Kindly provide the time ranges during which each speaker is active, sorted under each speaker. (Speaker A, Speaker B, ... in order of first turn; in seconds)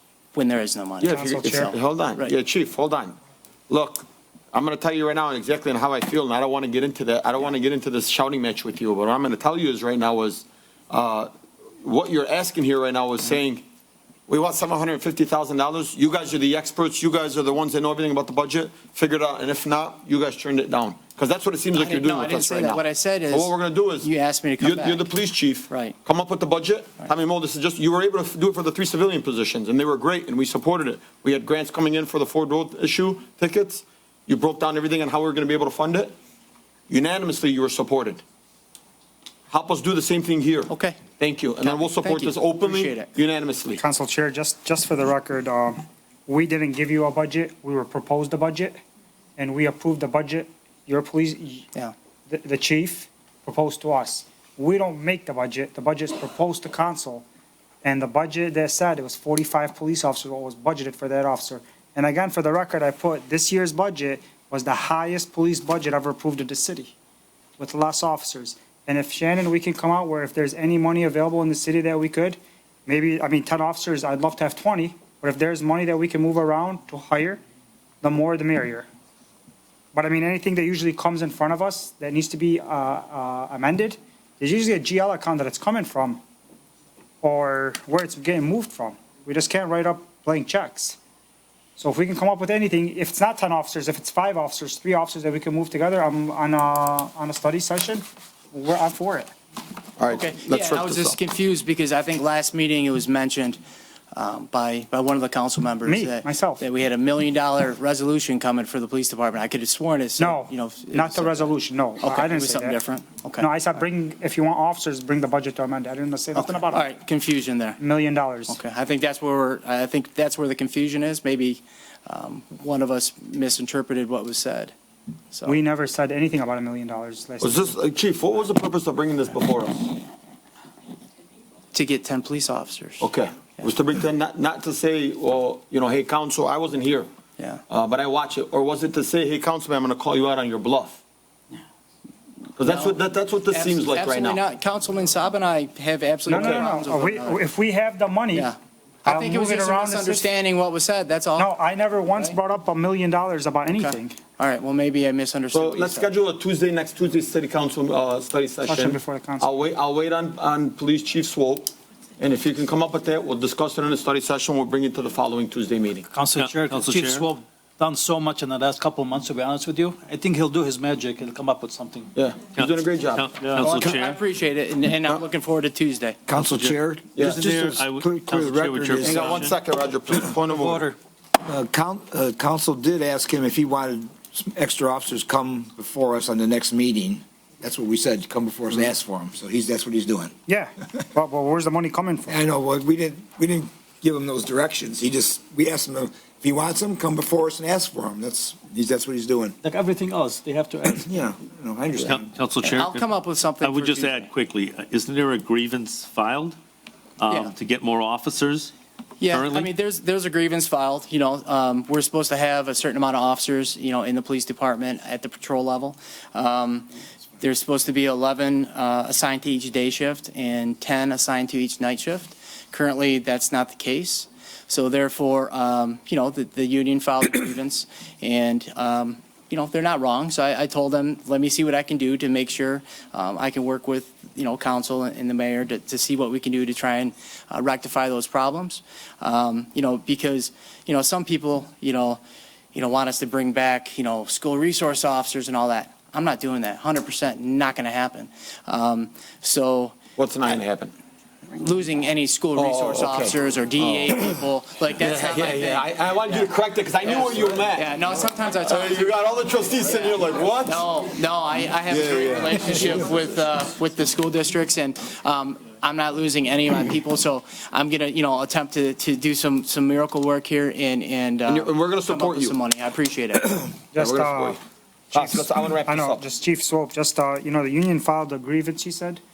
Speaker A: 0.3-2.3, 21.7-25.1, 25.7-26.0, 40.7-41.0, 41.6-43.1, 100.1-103.6, 104.1-113.5, 116.3-117.8, 118.5-124.7, 125.3-125.6, 131.7-133.1, 137.4-137.6, 142.7-143.0, 143.5-147.4, 148.3-152.4, 153.7-156.1, 173.6-176.2, 202.6-204.3, 209.2-216.9, 217.4-242.2, 242.7-250.0, 251.5-256.5, 257.0-259.2, 260.6-273.7
Speaker B: 1.0-3.2, 3.7-11.3, 11.8-13.6, 14.3-36.1, 36.9-38.2, 39.5-43.8, 100.0-101.2, 127.4-129.9, 133.0-137.1, 137.7-141.0, 142.6-144.4, 146.3-146.7, 155.5-166.1, 172.2-173.3, 177.2-177.4, 179.0-180.9, 250.2-250.9, 252.6-254.3, 255.0-257.9, 258.6-260.9, 261.9-263.0, 271.5-272.6, 274.0-274.6, 275.1-276.2
Speaker C: 1.1-1.8, 43.8-48.8, 49.4-51.7, 52.3-57.3, 57.8-66.9, 67.6-77.4, 78.0-78.9, 79.9-86.2, 87.2-91.0, 91.8-99.3, 105.9-106.6, 110.2-112.8, 113.4-116.9, 117.8-118.6, 125.5-127.8, 146.3-148.5, 149.1-150.3, 151.4-154.2, 158.7-159.6, 190.5-192.3, 273.9-274.6, 275.1-279.2
Speaker D: 166.1-172.1, 173.4-173.7, 177.2-177.8, 180.4-181.0, 199.6-201.0
Speaker E: 166.4-167.3, 172.5-174.2, 176.3-176.8, 177.3-179.6, 202.0-206.6, 207.2-208.7, 209.3-209.7
Speaker F: 176.3-179.5, 181.4-190.3, 192.3-199.6, 200.8-202.3